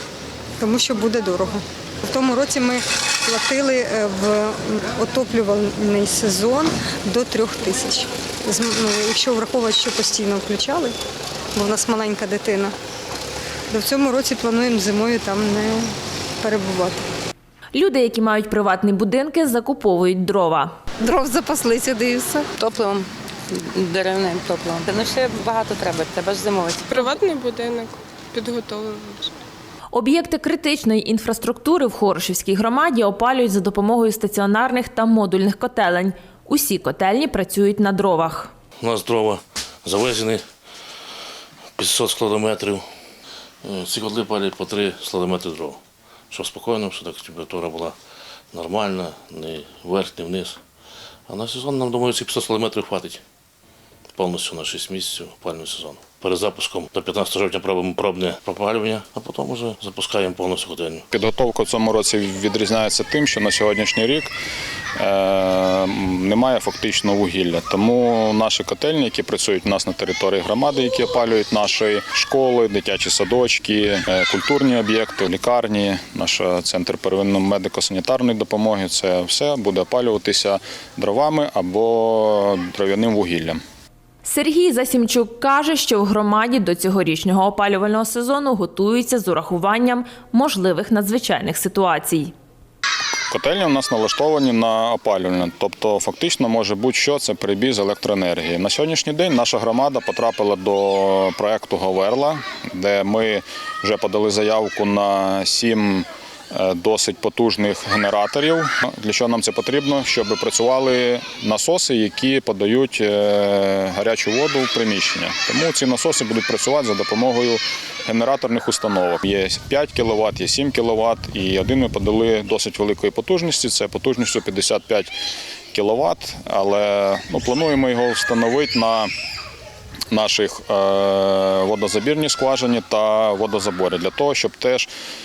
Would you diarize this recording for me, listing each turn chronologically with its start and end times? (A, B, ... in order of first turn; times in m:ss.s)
0:00.6-0:11.0 A
0:11.5-0:12.7 A
0:13.7-0:17.1 A
0:17.7-0:20.7 B
0:21.0-0:22.5 A
0:23.8-0:26.8 C
0:26.9-0:29.3 D
0:29.9-0:38.5 B
0:38.8-0:40.4 E
0:41.8-0:42.8 E
0:43.6-0:45.8 E
0:46.3-0:48.0 E
0:48.5-0:50.6 E
0:51.3-0:53.2 E
0:54.2-1:01.0 E
1:01.1-1:04.3 F
1:05.0-1:23.6 F
1:24.2-1:32.3 B
1:33.3-2:05.2 F
2:05.7-2:09.1 F
2:10.1-2:14.9 F